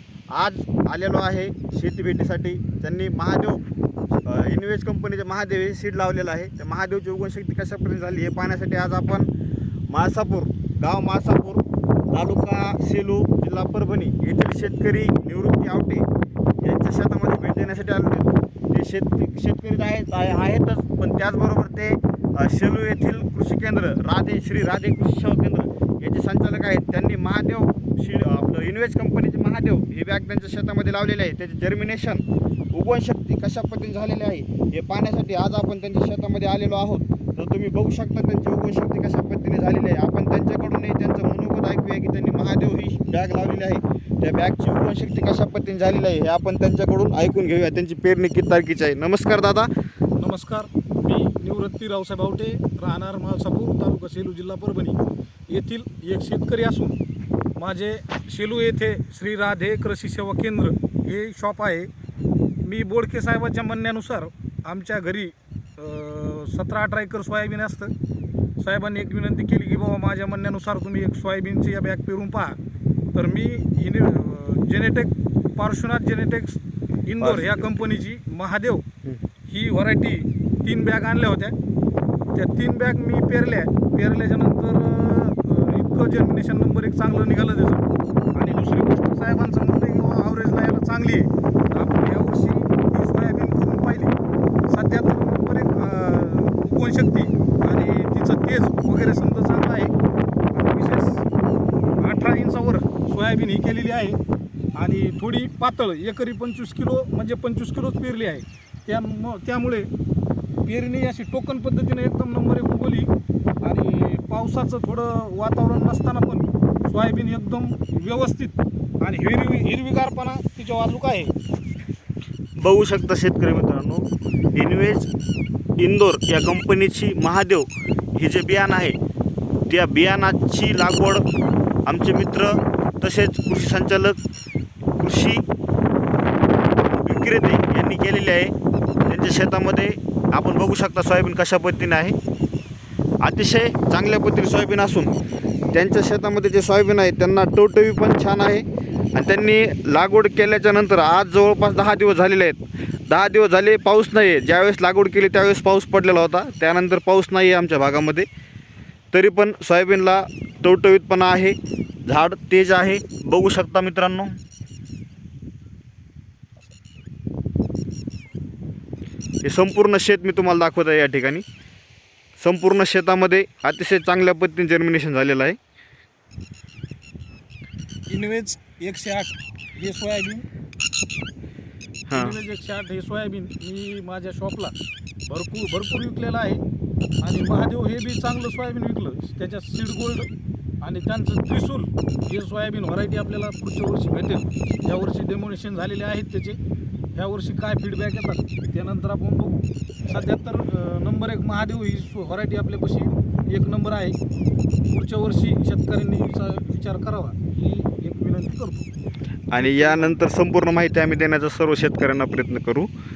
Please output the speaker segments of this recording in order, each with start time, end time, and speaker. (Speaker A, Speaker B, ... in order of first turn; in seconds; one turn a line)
Speaker A: 0.3-3.6
Speaker A: 4.2-9.3
Speaker A: 9.9-16.1
Speaker A: 16.6-49.7
Speaker B: 50.2-57.0
Speaker B: 57.6-61.9
Speaker B: 62.6-67.9
Speaker B: 68.6-72.6
Speaker B: 73.1-78.8
Speaker A: 77.2-77.7
Speaker B: 79.5-81.5
Speaker B: 82.3-94.1
Speaker B: 94.7-99.9
Speaker B: 100.5-101.2
Speaker B: 102.0-104.2
Speaker B: 104.8-109.9
Speaker B: 110.6-113.1
Speaker B: 113.6-121.3
Speaker A: 122.6-125.1
Speaker A: 125.8-129.0
Speaker A: 129.7-131.2
Speaker A: 131.8-134.2
Speaker A: 135.0-135.4
Speaker A: 137.0-138.5
Speaker A: 139.1-142.1
Speaker A: 143.2-145.1
Speaker A: 145.7-158.3
Speaker A: 159.1-164.3
Speaker A: 169.4-171.4
Speaker A: 172.4-175.6
Speaker B: 178.1-180.4
Speaker A: 182.1-182.3
Speaker B: 182.1-184.7
Speaker B: 185.3-186.6
Speaker B: 187.2-190.3
Speaker B: 190.8-196.6
Speaker B: 197.1-204.2
Speaker B: 204.9-208.9
Speaker A: 209.5-212.9
Speaker B: 209.5-210.2